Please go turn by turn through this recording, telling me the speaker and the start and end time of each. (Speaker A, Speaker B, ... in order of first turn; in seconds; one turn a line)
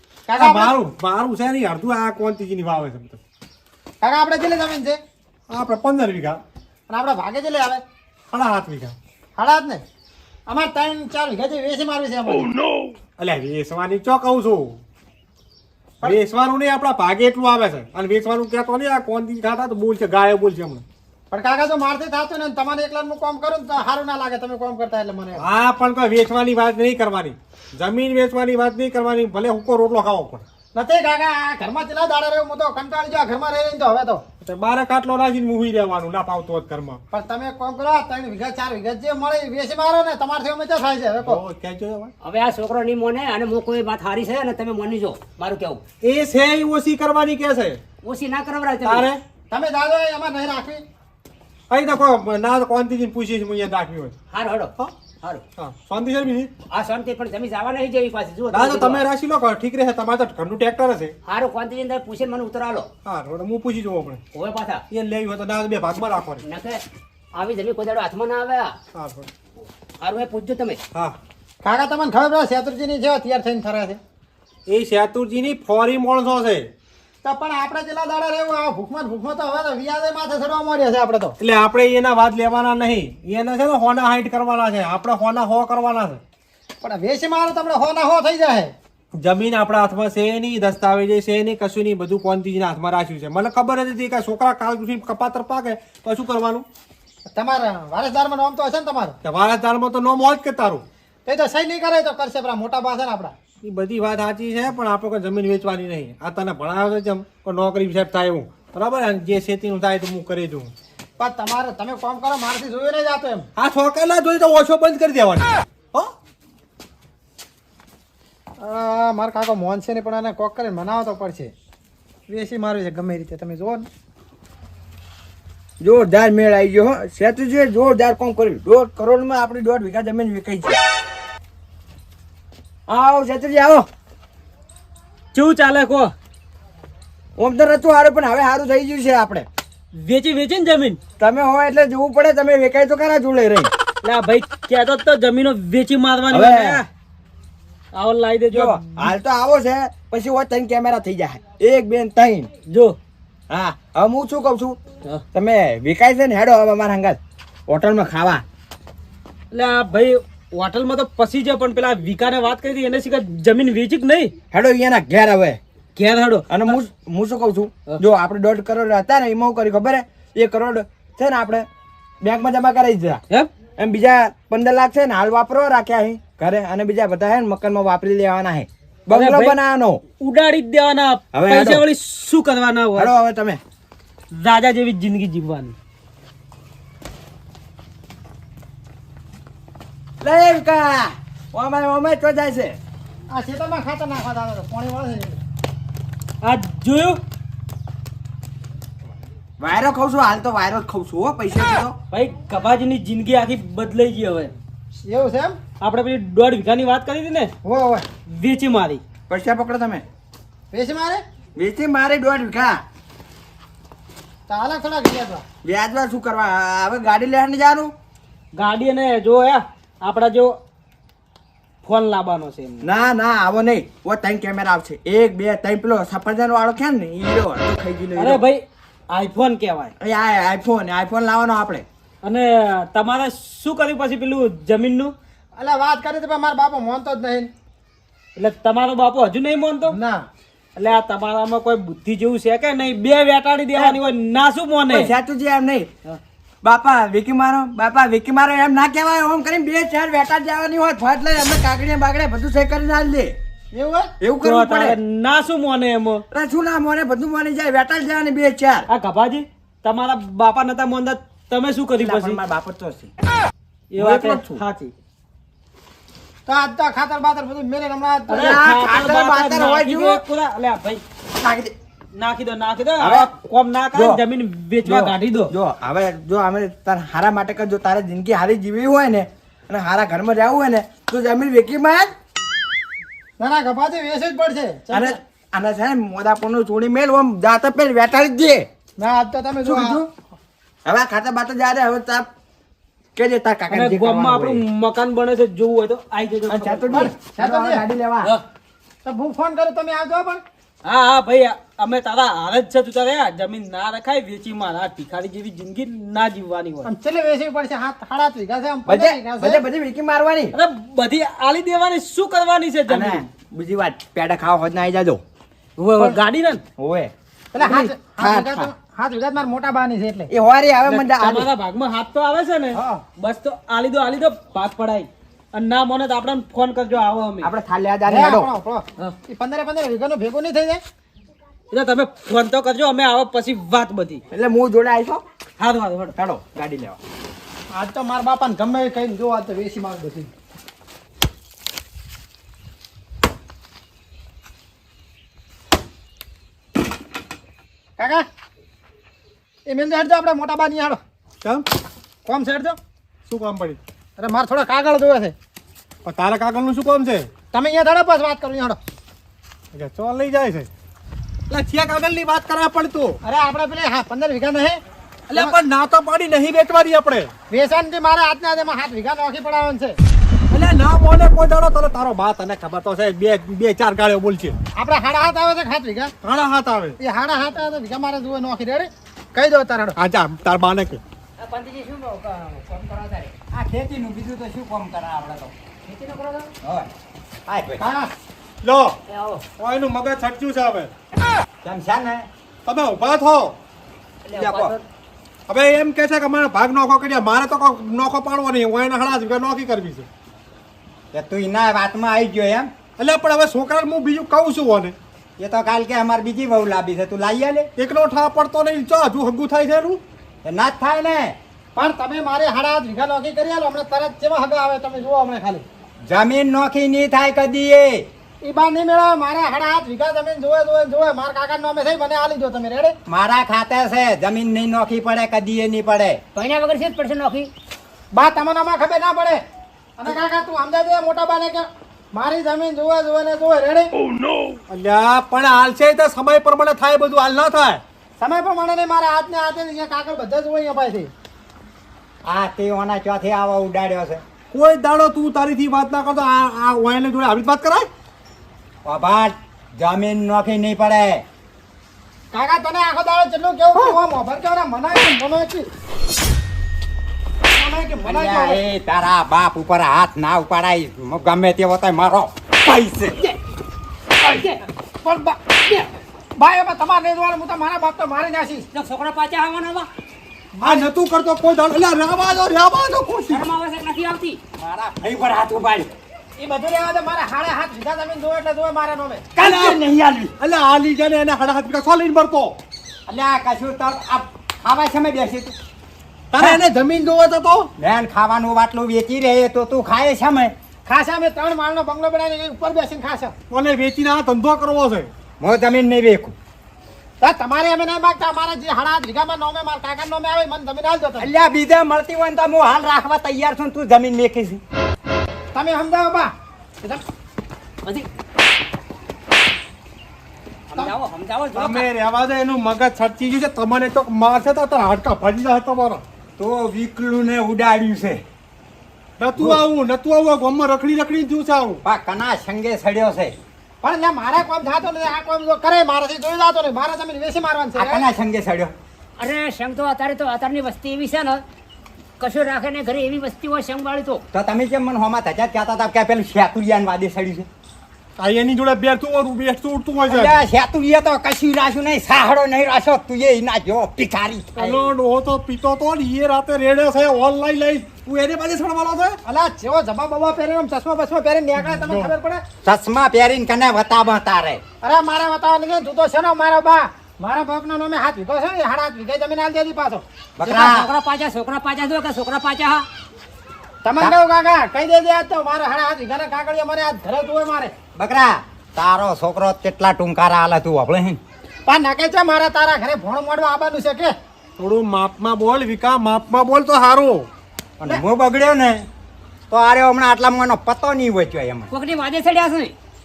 Speaker A: 0.3-0.8
Speaker B: 0.3-3.2
Speaker A: 4.0-5.0
Speaker B: 5.5-6.4
Speaker A: 6.9-7.8
Speaker B: 8.3-9.0
Speaker A: 9.4-9.8
Speaker A: 10.5-12.5
Speaker B: 13.2-14.8
Speaker B: 16.0-20.8
Speaker A: 21.3-25.5
Speaker B: 25.4-30.4
Speaker A: 30.7-34.2
Speaker B: 34.4-37.0
Speaker A: 37.1-41.4
Speaker B: 41.2-42.1
Speaker C: 42.2-45.8
Speaker B: 46.0-47.8
Speaker C: 48.0-49.1
Speaker B: 48.8-49.2
Speaker A: 49.5-50.8
Speaker B: 51.7-54.1
Speaker C: 54.3-55.4
Speaker B: 55.6-56.5
Speaker C: 56.7-59.0
Speaker B: 58.5-61.1
Speaker C: 61.2-62.9
Speaker B: 63.0-64.2
Speaker C: 64.3-64.8
Speaker B: 64.9-66.4
Speaker C: 66.4-68.8
Speaker B: 68.9-69.3
Speaker C: 70.0-70.8
Speaker A: 71.6-74.0
Speaker B: 74.7-76.7
Speaker A: 77.2-81.4
Speaker B: 81.4-86.2
Speaker A: 86.8-88.7
Speaker B: 89.2-96.7
Speaker A: 97.3-99.2
Speaker B: 99.2-100.8
Speaker A: 101.3-103.3
Speaker B: 103.6-110.7
Speaker A: 111.2-113.5
Speaker B: 113.6-116.1
Speaker A: 118.6-121.5
Speaker A: 122.3-123.9
Speaker D: 125.8-130.8
Speaker D: 132.9-133.9
Speaker E: 135.3-136.1
Speaker D: 137.4-139.5
Speaker E: 139.9-141.0
Speaker D: 141.2-143.7
Speaker E: 144.0-146.9
Speaker D: 146.3-146.8
Speaker E: 147.9-149.1
Speaker D: 148.5-152.5
Speaker E: 152.7-153.0
Speaker D: 153.5-154.8
Speaker D: 155.3-158.4
Speaker E: 159.5-164.3
Speaker D: 164.5-165.6
Speaker E: 166.0-166.8
Speaker D: 166.5-171.7
Speaker D: 172.2-173.2
Speaker D: 173.8-180.0
Speaker E: 179.1-179.6
Speaker E: 180.2-183.1
Speaker D: 181.3-181.9
Speaker D: 182.9-183.6
Speaker E: 184.4-185.7
Speaker D: 190.2-192.8
Speaker A: 193.3-195.4
Speaker E: 196.4-197.2
Speaker D: 199.6-202.0
Speaker E: 202.1-204.5
Speaker A: 205.1-205.6
Speaker E: 205.8-207.5
Speaker A: 207.6-208.1
Speaker E: 208.3-209.0
Speaker D: 209.3-210.0
Speaker A: 210.7-211.2
Speaker D: 211.6-212.8
Speaker A: 214.5-215.4
Speaker D: 215.6-217.9
Speaker E: 218.5-220.6
Speaker E: 221.8-222.9
Speaker D: 222.8-228.4
Speaker E: 228.2-229.9
Speaker D: 230.0-231.9
Speaker E: 232.2-235.1
Speaker A: 235.6-237.5
Speaker E: 238.4-240.0
Speaker A: 239.9-240.3
Speaker E: 240.8-245.1
Speaker D: 243.8-244.0
Speaker D: 244.9-245.9
Speaker D: 246.6-253.4
Speaker A: 253.7-254.1
Speaker D: 254.2-255.0
Speaker E: 254.4-256.2
Speaker D: 256.3-258.9
Speaker E: 258.9-262.4
Speaker D: 262.0-263.1
Speaker E: 263.9-264.9
Speaker D: 264.0-264.6
Speaker A: 266.5-268.6
Speaker E: 268.3-271.0
Speaker D: 268.3-270.2
Speaker D: 271.4-271.7
Speaker E: 272.1-275.5
Speaker D: 273.0-273.3
Speaker D: 273.9-274.2
Speaker D: 274.8-282.1
Speaker A: 283.4-285.2
Speaker D: 284.9-288.7
Speaker A: 289.0-290.0
Speaker D: 289.6-290.1
Speaker D: 290.9-292.3
Speaker D: 293.2-294.6
Speaker E: 293.7-297.1
Speaker D: 296.5-298.3
Speaker A: 296.9-297.8
Speaker A: 299.0-300.4
Speaker E: 300.9-306.9
Speaker A: 306.9-309.6
Speaker D: 308.9-310.6
Speaker E: 310.5-313.3
Speaker D: 312.9-315.2
Speaker E: 315.8-316.6
Speaker D: 316.8-318.7
Speaker A: 317.5-320.3
Speaker D: 320.3-321.5
Speaker E: 320.9-327.5
Speaker A: 322.7-323.0
Speaker D: 327.4-328.5
Speaker A: 328.1-330.8
Speaker E: 331.7-334.2
Speaker D: 334.3-335.2
Speaker E: 335.6-336.1
Speaker D: 336.2-337.0
Speaker A: 337.7-340.3
Speaker A: 348.0-348.2
Speaker A: 349.7-351.0
Speaker A: 352.3-352.8
Speaker B: 353.3-353.8
Speaker A: 354.2-355.4
Speaker B: 356.1-357.3
Speaker A: 357.5-358.8
Speaker B: 359.7-360.7
Speaker B: 361.5-363.2
Speaker A: 363.2-364.8
Speaker B: 365.3-367.3
Speaker A: 367.5-370.0
Speaker B: 370.5-374.6
Speaker A: 374.8-376.1
Speaker B: 376.2-377.0
Speaker A: 377.0-380.0
Speaker B: 380.0-381.0
Speaker C: 381.4-383.3
Speaker F: 383.5-385.5
Speaker C: 385.9-386.5
Speaker F: 386.6-386.9
Speaker F: 387.5-387.8
Speaker A: 387.8-388.1
Speaker B: 388.6-389.0
Speaker C: 389.1-389.4
Speaker B: 389.6-390.9
Speaker F: 391.6-392.3
Speaker B: 392.6-393.6
Speaker C: 394.2-394.8
Speaker B: 394.4-394.7
Speaker B: 395.5-400.1
Speaker F: 401.1-402.7
Speaker B: 403.0-405.0
Speaker F: 405.4-407.7
Speaker B: 407.8-410.0
Speaker F: 410.4-411.4
Speaker A: 411.8-415.6
Speaker F: 416.1-418.1
Speaker A: 418.4-422.9
Speaker F: 423.1-426.2
Speaker C: 426.4-427.5
Speaker A: 428.1-429.4
Speaker A: 430.0-433.9
Speaker B: 434.7-437.8
Speaker A: 438.2-441.1
Speaker F: 442.2-444.2
Speaker B: 444.5-447.9
Speaker F: 448.9-451.2
Speaker A: 452.3-455.7
Speaker A: 457.5-458.6
Speaker F: 458.0-463.2
Speaker C: 464.2-464.6
Speaker A: 465.0-468.7
Speaker C: 468.7-469.9
Speaker A: 470.6-470.9
Speaker B: 470.6-473.4
Speaker C: 473.3-474.4
Speaker F: 474.6-475.9
Speaker A: 476.4-479.3
Speaker F: 479.4-480.4
Speaker B: 479.4-479.8
Speaker B: 480.4-482.6
Speaker F: 483.1-485.6
Speaker B: 486.3-487.7
Speaker F: 487.8-490.5
Speaker A: 490.9-493.3
Speaker B: 493.5-495.1
Speaker F: 495.4-496.4
Speaker A: 497.2-501.3
Speaker F: 501.2-504.6
Speaker A: 505.5-507.0
Speaker C: 510.7-511.9
Speaker B: 511.5-516.0
Speaker F: 516.4-518.2
Speaker B: 519.2-521.8
Speaker F: 519.4-519.6
Speaker F: 521.8-523.4
Speaker A: 523.8-528.1
Speaker F: 527.8-528.7
Speaker C: 529.2-531.4
Speaker C: 532.2-534.2
Speaker F: 534.3-537.5
Speaker B: 538.2-540.4
Speaker F: 540.0-544.6
Speaker B: 544.6-549.2
Speaker A: 544.6-544.9
Speaker A: 549.3-552.5
Speaker B: 551.6-552.1
Speaker F: 552.6-554.6
Speaker A: 554.8-560.7
Speaker F: 560.4-560.9
Speaker C: 560.6-562.9
Speaker A: 563.8-567.7
Speaker F: 568.0-571.2
Speaker A: 571.7-574.1
Speaker B: 574.6-577.3
Speaker F: 577.8-578.9
Speaker F: 579.5-581.7
Speaker C: 581.7-582.8